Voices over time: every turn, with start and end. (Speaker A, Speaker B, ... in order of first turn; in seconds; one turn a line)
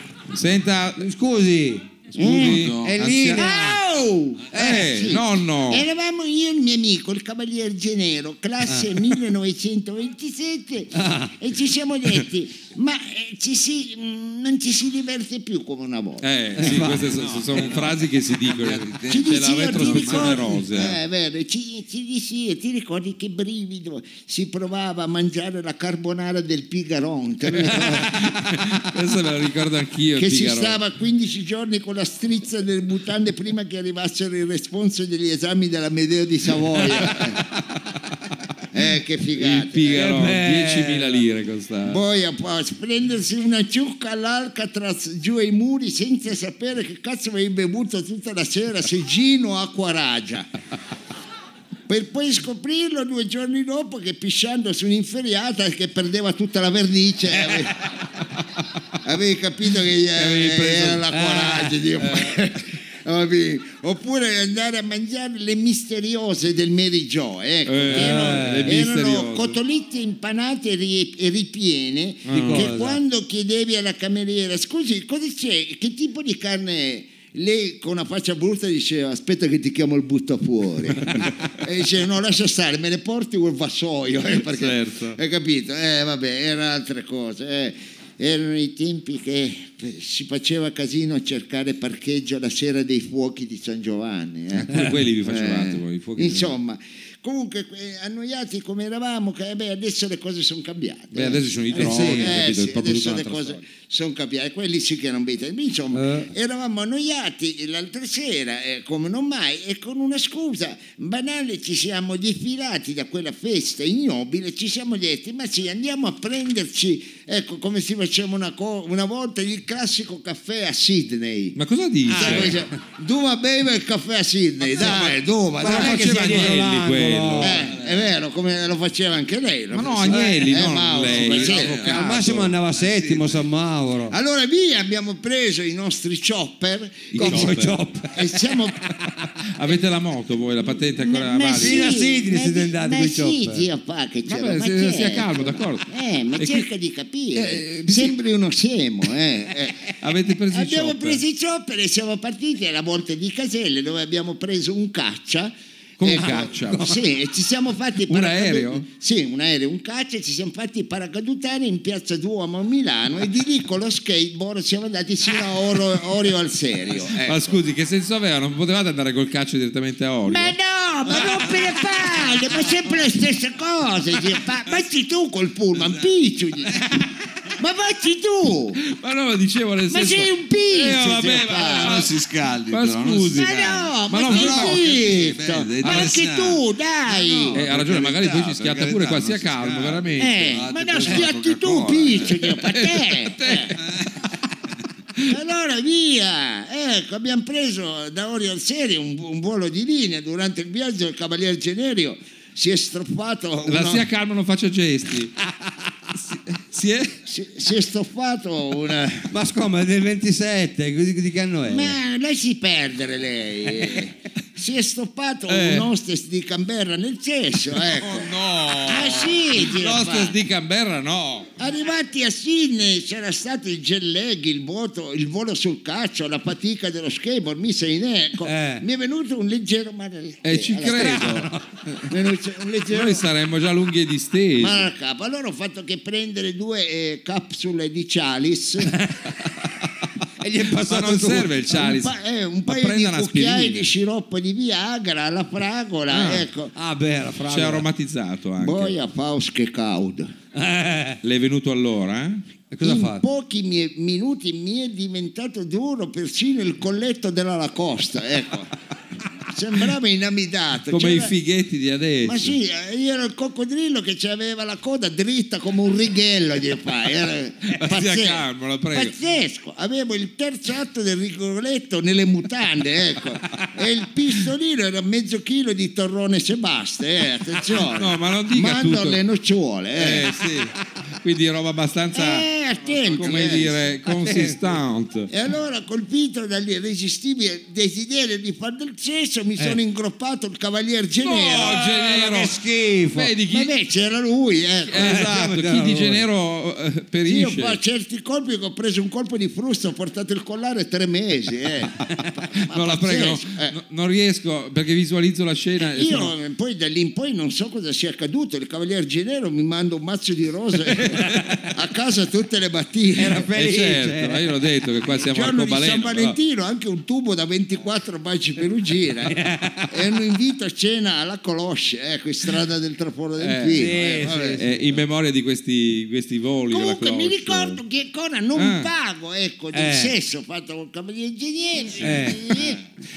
Speaker A: 0.3-1.1
Speaker B: 1.0-3.8
Speaker C: 2.1-2.7
Speaker A: 2.2-3.5
Speaker D: 2.4-3.0
Speaker C: 3.4-16.3
Speaker B: 4.5-4.9
Speaker A: 4.5-5.9
Speaker B: 8.7-9.0
Speaker B: 10.9-11.3
Speaker A: 16.2-21.0
Speaker B: 16.6-17.2
Speaker D: 17.1-20.6
Speaker C: 19.1-28.4
Speaker A: 27.5-30.8
Speaker C: 30.2-37.4
Speaker C: 38.7-40.1
Speaker A: 39.4-42.0
Speaker B: 39.9-41.2
Speaker C: 41.9-50.5
Speaker C: 51.9-57.9
Speaker C: 59.0-121.6
Speaker A: 60.2-61.0
Speaker B: 61.1-61.8
Speaker A: 67.7-69.6
Speaker B: 67.9-68.8
Speaker A: 72.3-72.7
Speaker B: 72.3-73.0
Speaker A: 84.4-85.2
Speaker A: 94.5-96.5
Speaker A: 101.1-103.6
Speaker B: 101.8-102.3
Speaker B: 105.9-106.3
Speaker A: 121.6-122.6
Speaker B: 122.1-122.6
Speaker C: 122.1-126.5
Speaker A: 124.8-125.1
Speaker B: 125.6-127.6
Speaker A: 125.6-127.6
Speaker C: 127.4-132.0
Speaker D: 127.6-128.1
Speaker A: 129.7-132.5
Speaker B: 130.1-130.6
Speaker D: 131.1-132.0
Speaker B: 131.8-134.2
Speaker D: 132.7-133.5
Speaker C: 134.1-138.8
Speaker A: 137.1-137.8
Speaker B: 137.2-138.3
Speaker A: 139.3-142.0
Speaker C: 140.9-167.6
Speaker B: 141.6-143.7
Speaker A: 144.3-146.7
Speaker A: 147.3-148.2
Speaker A: 150.0-151.2
Speaker A: 156.0-157.0
Speaker B: 156.2-157.0
Speaker A: 158.1-158.9
Speaker A: 167.1-170.6
Speaker C: 170.3-178.8
Speaker A: 178.8-182.1
Speaker C: 179.9-182.1
Speaker D: 181.3-192.6
Speaker A: 182.7-183.6
Speaker C: 183.3-187.6
Speaker A: 184.1-184.9
Speaker A: 185.8-186.2
Speaker A: 187.5-190.6
Speaker C: 190.2-193.8
Speaker A: 192.7-193.8
Speaker C: 195.2-204.1
Speaker A: 203.7-205.4
Speaker A: 206.2-207.2
Speaker C: 207.3-209.3
Speaker B: 209.3-212.0
Speaker C: 211.7-220.4
Speaker A: 215.5-215.9
Speaker A: 217.8-221.5
Speaker C: 221.6-231.5
Speaker B: 228.4-228.8
Speaker A: 230.4-232.1
Speaker B: 230.9-231.6
Speaker C: 232.1-233.3
Speaker A: 232.9-234.9
Speaker C: 234.6-238.9
Speaker B: 238.9-239.2
Speaker B: 240.4-241.5
Speaker A: 240.7-242.1
Speaker C: 241.7-246.7
Speaker A: 242.7-243.9
Speaker A: 246.1-246.5
Speaker B: 246.8-247.9
Speaker A: 247.5-248.9
Speaker C: 248.6-250.3
Speaker B: 250.6-251.2
Speaker A: 251.2-252.4
Speaker B: 252.7-253.2
Speaker C: 252.8-258.7
Speaker C: 259.5-261.4
Speaker A: 260.9-262.6
Speaker C: 262.2-280.4
Speaker A: 267.7-269.1
Speaker A: 277.8-279.2
Speaker A: 280.0-285.3
Speaker C: 282.1-283.8
Speaker B: 284.1-284.6
Speaker C: 285.3-291.8
Speaker A: 291.2-292.6
Speaker B: 291.6-293.3
Speaker A: 293.1-293.7
Speaker C: 293.5-295.1
Speaker A: 294.9-297.8
Speaker B: 294.9-296.2
Speaker C: 297.3-303.8
Speaker A: 302.6-306.3
Speaker C: 305.8-313.5
Speaker A: 310.9-311.7
Speaker B: 313.2-314.5
Speaker A: 313.4-316.4
Speaker C: 315.2-319.4
Speaker B: 319.3-319.9
Speaker C: 319.9-324.7
Speaker A: 323.4-324.0
Speaker B: 323.7-324.8
Speaker A: 324.5-327.8
Speaker C: 326.7-332.9
Speaker A: 328.6-328.9
Speaker B: 329.7-330.1
Speaker B: 332.0-332.5